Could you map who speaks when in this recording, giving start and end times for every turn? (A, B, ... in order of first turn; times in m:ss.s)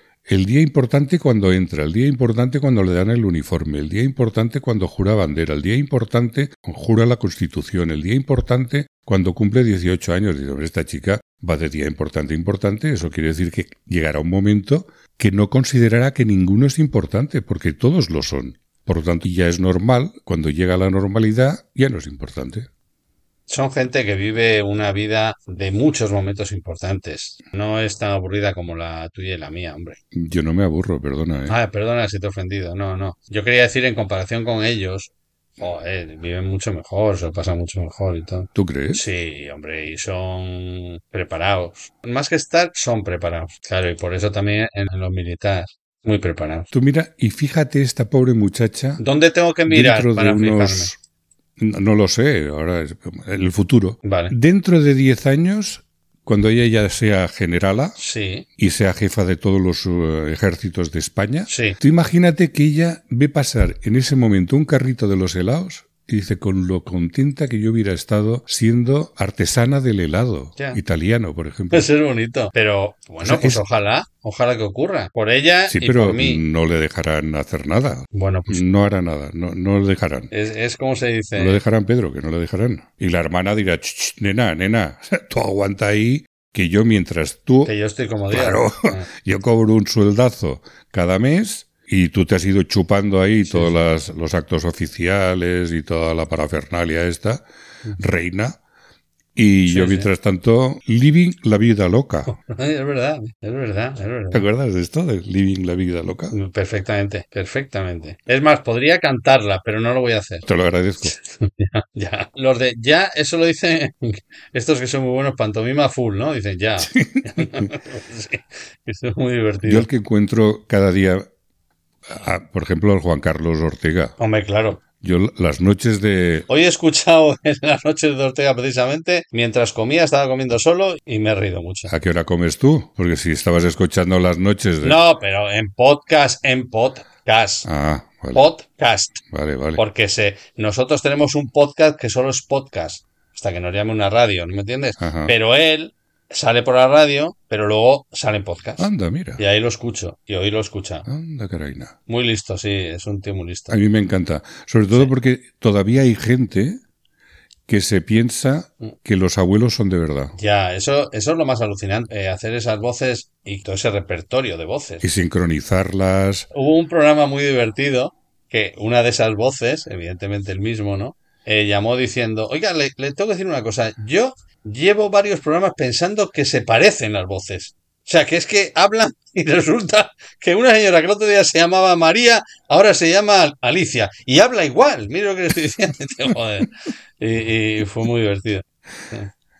0:00.3-0:22.7 A
0:23.5-0:30.0 B
0:30.1-0:31.6 A
0:31.5-0:46.7 B
0:38.6-0:39.0 A
0:46.7-0:49.0 A
0:49.0-0:50.9 B
0:49.7-0:51.0 A
0:51.6-0:58.0 A
0:54.0-0:54.3 B
0:58.0-0:58.5 B
0:58.6-1:11.9 A
1:01.5-1:01.8 B
1:11.7-1:16.4 B
1:13.2-1:13.6 A
1:15.7-1:20.3 A
1:18.1-1:18.6 B
1:20.3-1:21.6 B
1:21.4-1:27.7 A
1:27.6-1:29.1 B
1:28.3-1:37.4 A
1:33.5-1:33.8 B
1:38.0-1:38.6 A
1:39.4-1:42.4 A
1:39.7-1:40.1 B
1:42.3-1:44.5 B
1:44.3-1:46.4 A
1:46.3-1:50.5 B
1:50.4-1:51.1 A
1:51.0-1:59.9 B
1:56.8-1:57.7 A
1:59.6-2:01.3 A
2:02.1-2:04.2 A
2:04.2-2:04.8 B
2:05.0-2:06.5 A
2:06.5-2:11.9 B
2:11.9-2:15.0 A
2:14.8-2:17.7 B
2:17.6-2:18.5 A
2:18.3-2:19.2 B
2:19.3-2:19.8 A
2:19.8-2:31.1 B
2:25.0-2:25.3 A
2:28.8-2:29.4 A
2:31.1-2:32.0 A
2:32.1-2:33.8 B
2:33.7-2:36.8 A
2:37.7-2:40.3 A
2:40.4-2:45.0 B
2:45.0-2:46.5 A
2:46.5-3:09.3 B